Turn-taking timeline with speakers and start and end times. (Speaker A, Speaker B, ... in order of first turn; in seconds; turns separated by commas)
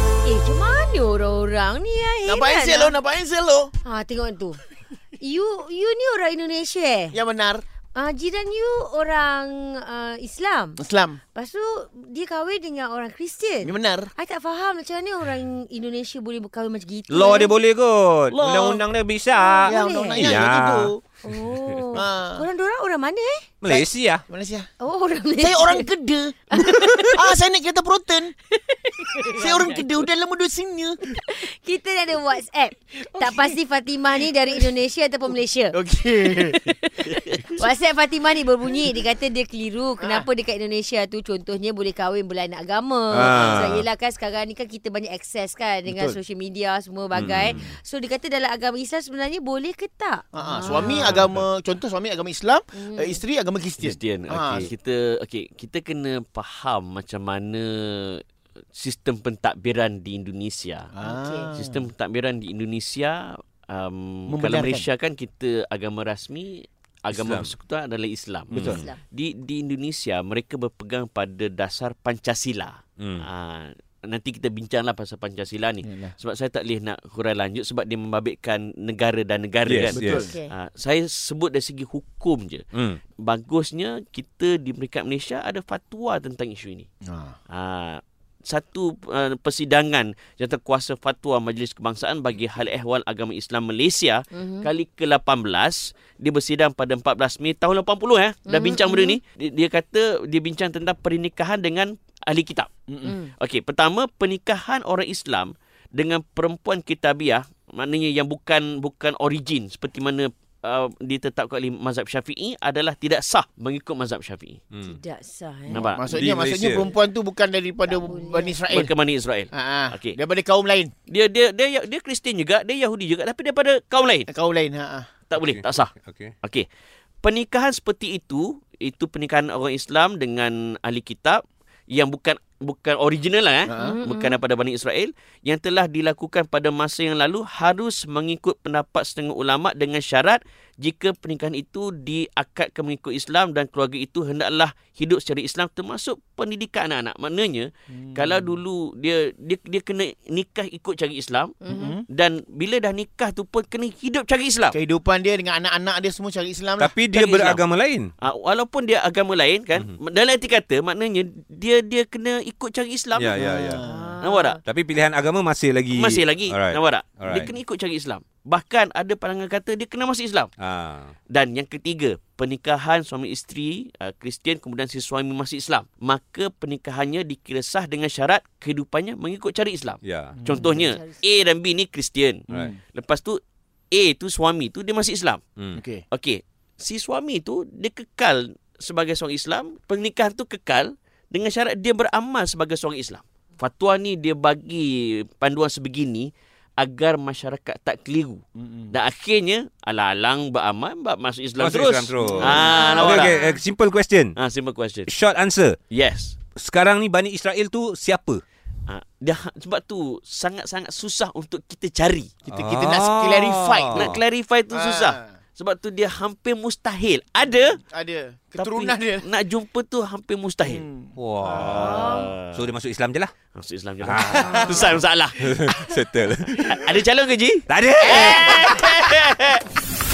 Speaker A: 0.2-2.9, Speaker B: 2.3-3.7, Speaker A: 3.9-4.6, Speaker A: 5.2-7.2, Speaker B: 7.1-7.6, Speaker A: 8.0-10.8, Speaker B: 10.8-11.2, Speaker A: 11.3-17.5, Speaker B: 13.6-14.1, Speaker C: 17.1-20.9, Speaker B: 18.3-18.8, Speaker A: 19.3-20.4, Speaker B: 19.7-21.0, Speaker A: 21.2-23.5, Speaker B: 22.0-22.4, Speaker C: 23.6-24.2, Speaker B: 23.7-24.7, Speaker A: 24.8-25.9, Speaker B: 25.4-26.4, Speaker A: 26.5-27.2, Speaker B: 27.1-28.3, Speaker A: 28.5-29.8, Speaker B: 29.4-31.0, Speaker A: 31.1-35.7, Speaker B: 33.0-33.6, Speaker B: 35.7-36.6, Speaker A: 36.7-51.3, Speaker D: 37.2-37.5, Speaker C: 43.1-43.9, Speaker B: 45.9-46.2, Speaker C: 47.1-47.7, Speaker B: 50.3-54.7, Speaker C: 50.8-51.4, Speaker A: 52.8-53.2, Speaker D: 53.8-58.2, Speaker D: 58.8-60.9, Speaker B: 60.9-61.9, Speaker A: 61.0-61.5, Speaker D: 61.6-82.7, Speaker B: 64.3-64.9, Speaker C: 67.1-67.5, Speaker C: 68.5-68.9, Speaker A: 68.6-69.0, Speaker C: 73.0-73.2, Speaker B: 75.8-76.1, Speaker C: 79.7-80.3, Speaker B: 79.9-80.3, Speaker A: 80.1-80.5, Speaker C: 82.8-83.0, Speaker D: 83.2-86.9, Speaker B: 87.1-87.4, Speaker D: 87.5-102.7, Speaker A: 94.3-94.7, Speaker A: 98.5-99.2, Speaker B: 102.9-103.2, Speaker A: 103.0-103.3, Speaker D: 103.4-114.6, Speaker C: 114.7-115.0, Speaker A: 114.8-115.9, Speaker D: 115.7-116.1, Speaker C: 115.7-116.9, Speaker B: 115.9-118.9, Speaker A: 117.9-118.6, Speaker D: 118.7-120.2, Speaker B: 119.5-120.9, Speaker D: 121.1-124.3, Speaker B: 124.3-125.1, Speaker D: 125.3-125.9, Speaker C: 125.4-126.3, Speaker D: 127.2-151.6, Speaker B: 133.7-133.9, Speaker A: 133.8-134.4, Speaker B: 147.9-148.6, Speaker A: 151.6-152.0, Speaker B: 151.7-152.1, Speaker D: 152.1-154.8, Speaker B: 154.7-156.9, Speaker C: 156.8-158.1, Speaker D: 157.1-157.6, Speaker D: 158.2-163.5, Speaker C: 163.1-163.8, Speaker B: 163.3-164.1, Speaker A: 163.8-164.6, Speaker D: 164.2-164.6, Speaker C: 164.6-167.6, Speaker D: 165.9-170.5, Speaker C: 170.6-171.1, Speaker D: 171.3-183.4, Speaker C: 180.0-180.4, Speaker B: 180.4-180.9, Speaker A: 180.5-181.2, Speaker B: 182.5-182.8, Speaker D: 183.9-185.4, Speaker B: 185.8-186.0, Speaker D: 186.1-203.4, Speaker B: 198.6-198.9, Speaker C: 201.6-204.4, Speaker A: 202.5-203.6, Speaker D: 204.4-205.1, Speaker C: 205.1-205.8, Speaker D: 205.9-206.4, Speaker C: 206.6-208.4, Speaker D: 208.9-212.5, Speaker B: 212.5-214.1, Speaker C: 212.5-214.2, Speaker D: 213.9-217.8, Speaker B: 214.7-215.3, Speaker B: 217.9-219.3, Speaker D: 218.6-220.8, Speaker B: 220.6-221.7, Speaker C: 221.2-223.3, Speaker D: 221.5-222.7, Speaker A: 221.7-222.3, Speaker D: 223.6-225.4, Speaker C: 224.0-226.9, Speaker D: 226.7-229.6, Speaker C: 227.7-229.0